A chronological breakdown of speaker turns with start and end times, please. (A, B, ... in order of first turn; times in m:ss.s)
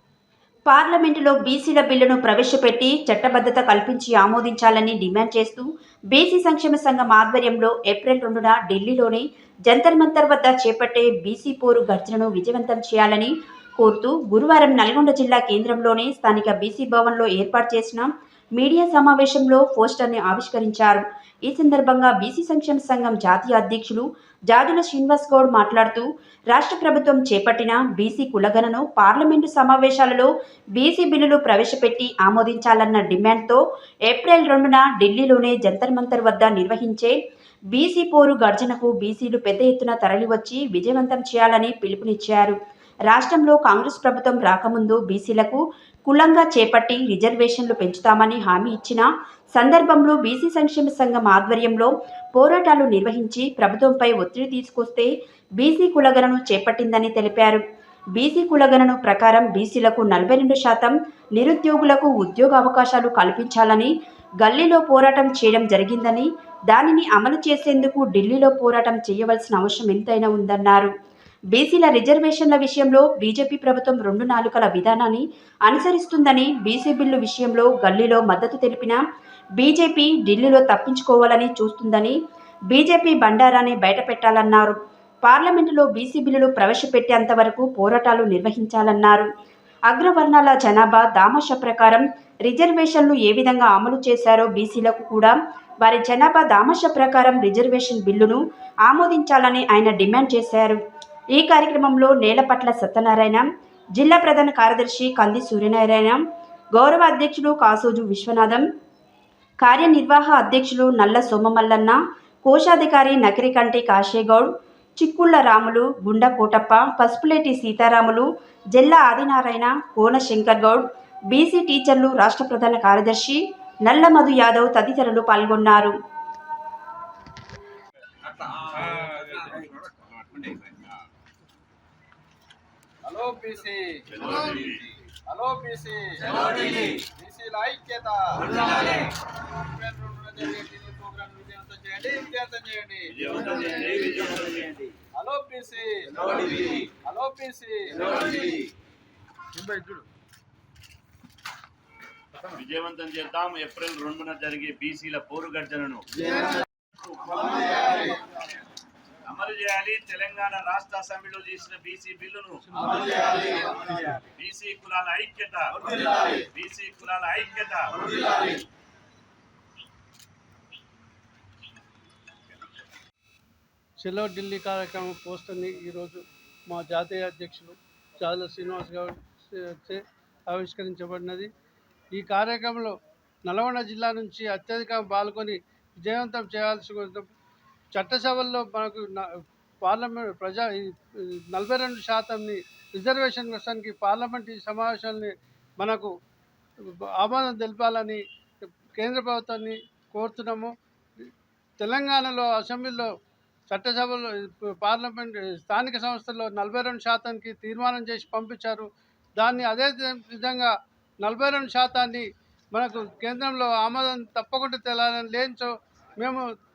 0:00.7-0:37.2 A
0:37.7-0:42.6 A
0:43.1-0:57.6 A
0:58.2-1:10.9 A
1:11.5-1:19.0 A
1:19.6-1:22.2 A
1:22.7-1:29.3 A
1:29.9-1:40.8 A
1:41.4-1:43.5 A
1:44.0-1:46.2 A
1:46.8-1:48.6 A
1:49.6-2:05.9 A
2:13.0-2:14.7 B
2:14.1-2:14.8 C
2:15.3-2:19.0 B
2:19.7-2:23.3 B
2:23.1-2:24.7 C
2:25.2-2:28.6 B
2:32.5-2:36.0 C
2:37.7-2:38.0 B
2:39.3-2:42.8 C
2:42.8-2:43.3 D
2:44.4-2:48.0 C
2:54.0-3:01.5 D
3:02.1-3:03.0 D
3:03.5-3:07.3 D
3:07.9-3:16.1 D
3:16.8-3:18.2 D
3:19.0-3:21.3 D
3:21.8-3:23.1 D
3:23.7-3:36.4 D